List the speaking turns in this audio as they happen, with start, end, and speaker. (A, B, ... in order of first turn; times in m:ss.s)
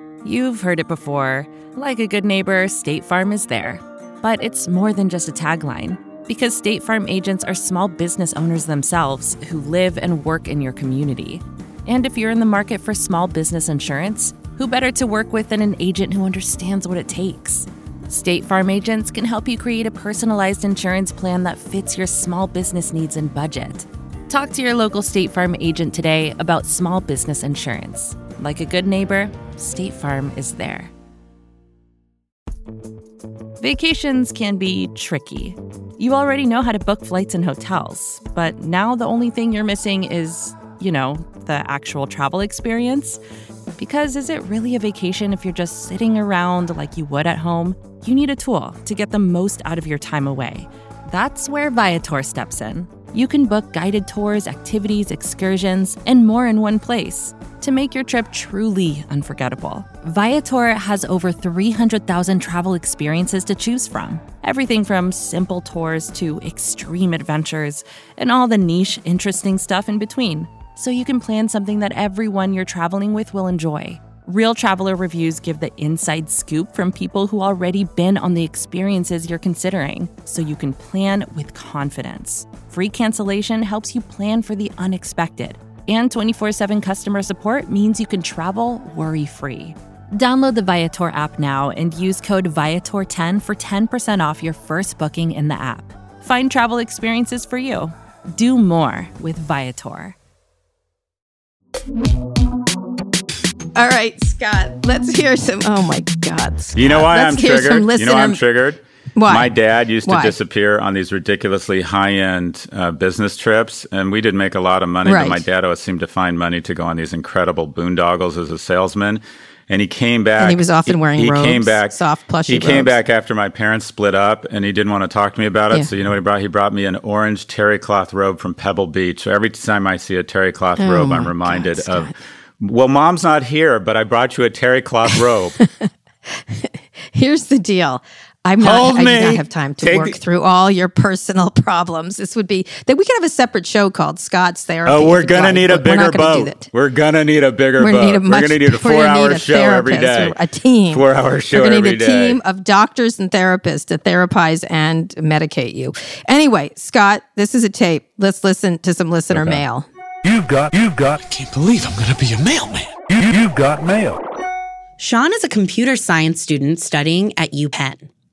0:00.2-0:30.9 A
0:33.6-0:43.2 A
0:43.8-1:40.2 A
1:43.8-1:48.4 B
1:46.8-2:02.0 C
1:49.2-1:50.4 B
1:55.0-1:55.4 B
2:00.4-2:02.9 B
2:02.5-2:15.6 C
2:10.8-2:12.1 B
2:15.6-2:26.7 B
2:18.6-2:20.2 C
2:24.8-2:30.4 C
2:27.8-2:39.9 B
2:30.9-2:32.4 C
2:39.4-2:39.6 C
2:40.2-2:44.2 D
2:45.0-2:48.1 E